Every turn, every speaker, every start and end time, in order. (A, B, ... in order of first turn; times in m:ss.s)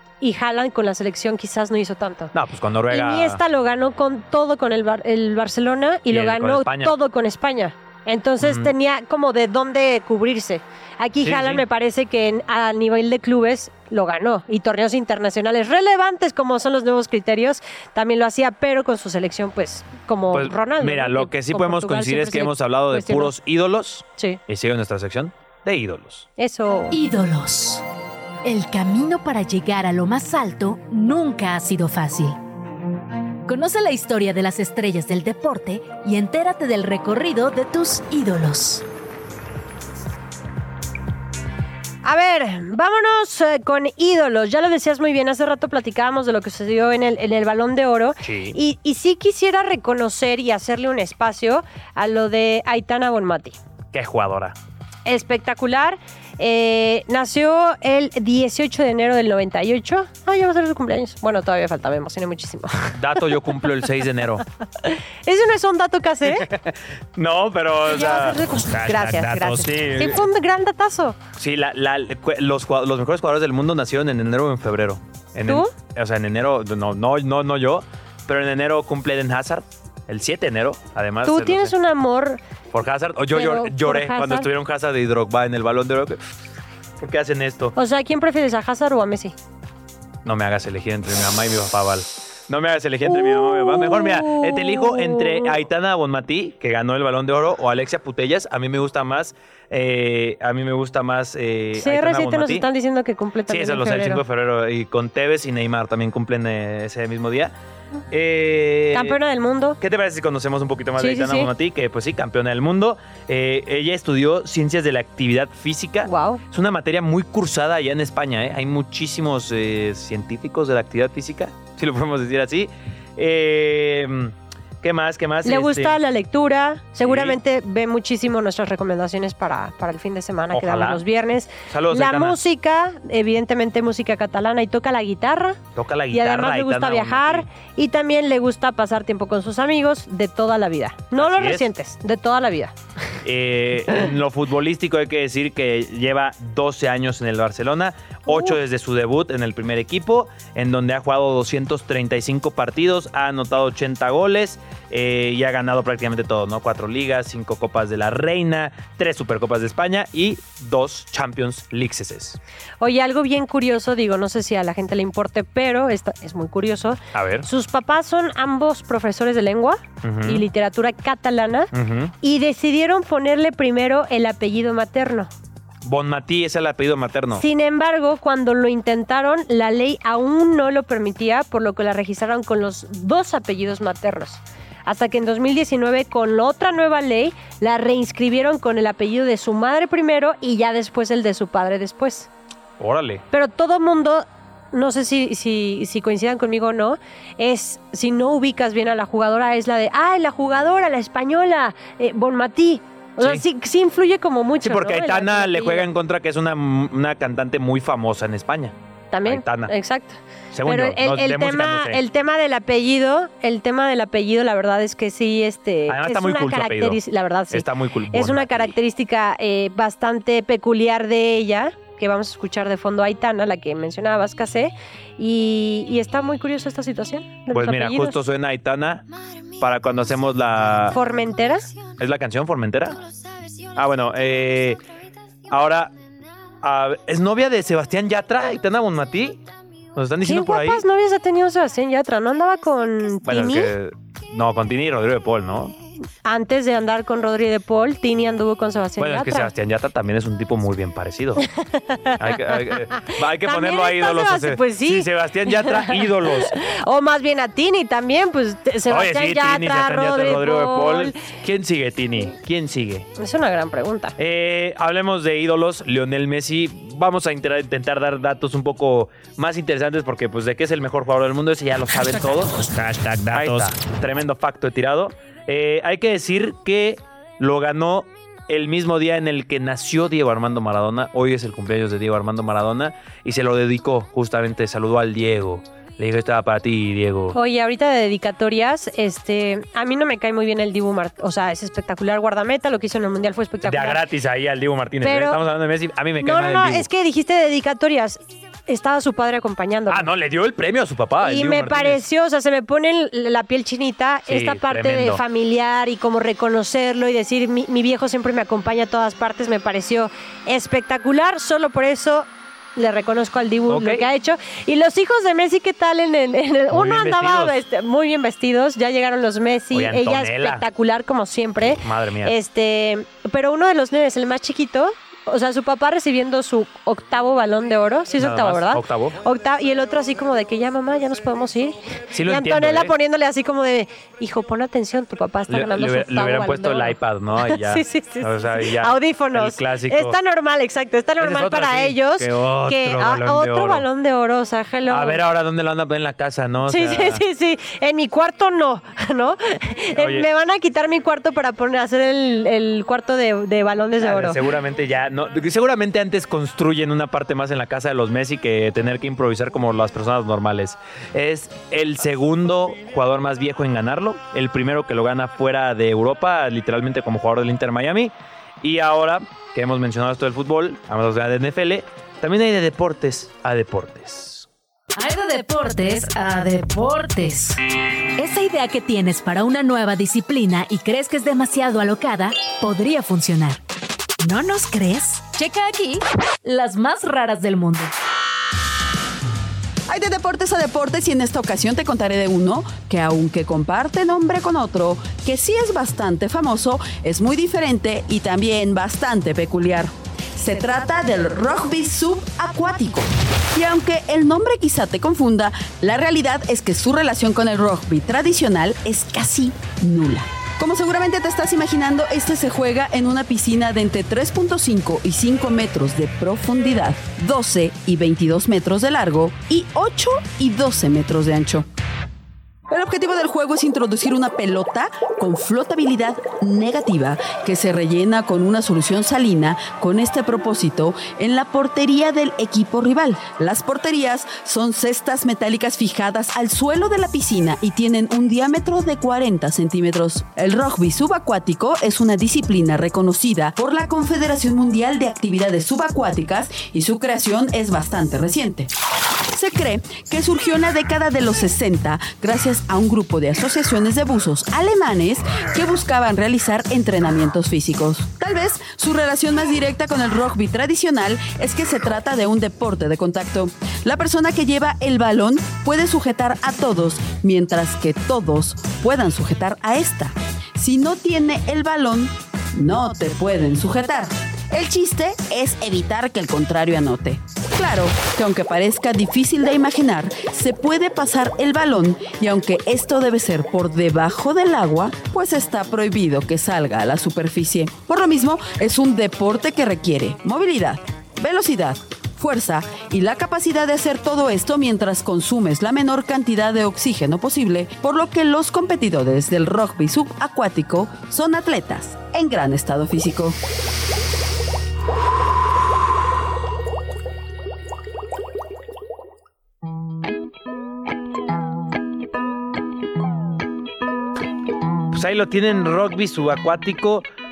0:00.2-0:02.3 A
0:02.3-0:03.4 B
0:02.9-0:23.3 A
0:06.1-0:06.9 B
0:08.4-0:08.7 B
0:11.2-0:11.6 B
0:20.3-0:26.3 B
0:26.4-0:27.0 A
0:26.9-0:27.8 C
0:28.4-0:32.4 C
0:33.5-0:38.8 C
0:42.0-0:53.6 A
0:48.2-0:48.6 B
0:53.9-0:54.6 B
0:55.1-1:03.2 A
1:03.0-1:04.4 B
1:04.8-1:06.5 A
1:06.3-1:10.2 B
1:07.8-1:11.2 A
1:11.4-1:21.7 B
1:15.5-1:15.7 A
1:21.2-1:22.4 A
1:22.7-1:26.2 B
1:23.3-1:24.5 A
1:27.0-1:27.8 B
1:27.8-1:29.4 A
1:30.2-1:42.7 B
1:33.1-1:35.5 A
1:41.8-1:44.2 A
1:43.5-1:47.5 B
1:48.1-1:49.2 B
1:48.9-1:49.8 A
1:49.8-2:06.0 B
1:51.0-1:51.5 A
1:56.0-1:56.4 A
2:05.4-2:15.6 A
2:07.0-2:07.4 B
2:10.5-2:11.0 B
2:11.7-2:12.4 B
2:15.8-2:17.5 B
2:16.1-2:22.8 A
2:21.2-2:21.7 B
2:23.2-2:42.4 B
2:28.3-2:28.6 A
2:42.8-2:51.7 A
2:47.1-2:47.5 B
2:50.0-2:50.4 B
2:51.7-2:52.1 B
2:52.2-2:55.3 A
2:55.8-2:57.4 B
2:57.4-3:12.3 A
3:12.8-3:13.2 B
3:13.3-3:25.9 A
3:23.2-3:23.4 B
3:24.6-3:29.7 B
3:29.1-3:48.2 A
3:30.5-3:32.0 B
3:35.9-3:37.0 B
3:37.5-3:38.7 B
3:47.5-3:49.1 B
3:49.6-3:51.0 B
3:50.9-3:51.8 A
3:52.0-3:53.0 B
3:53.8-3:54.8 B
3:55.5-3:55.9 B
3:56.6-3:59.4 B
4:00.0-4:00.8 B
4:00.2-4:03.7 A
4:03.3-4:05.8 B
4:06.2-4:09.5 A
4:09.0-4:11.5 B
4:11.8-4:21.2 A
4:12.2-4:16.6 B
4:18.9-4:23.1 B
4:23.2-4:24.2 A
4:24.2-4:32.7 B
4:32.6-4:33.7 C
4:33.3-4:47.4 B
4:47.3-4:54.0 A
4:53.6-4:56.9 B
4:55.0-4:55.4 A
4:56.2-5:00.1 A
4:59.9-5:02.0 B
5:01.2-5:45.2 A
5:04.3-5:05.2 B
5:13.7-5:14.0 B
5:16.7-5:17.6 B
5:19.7-5:20.6 B
5:21.8-5:22.4 B
5:28.2-5:29.2 B
5:32.1-5:32.9 B
5:35.5-5:40.2 B
5:41.2-5:43.9 B
5:44.9-5:47.2 B
5:46.7-5:54.4 A
5:50.0-5:50.3 B
5:54.0-6:14.5 B
6:15.0-6:17.6 C
6:18.2-6:23.6 C
6:24.2-6:27.9 C
6:29.9-7:01.7 D
7:02.7-7:28.7 D
7:29.3-8:23.4 D
8:34.9-8:37.0 B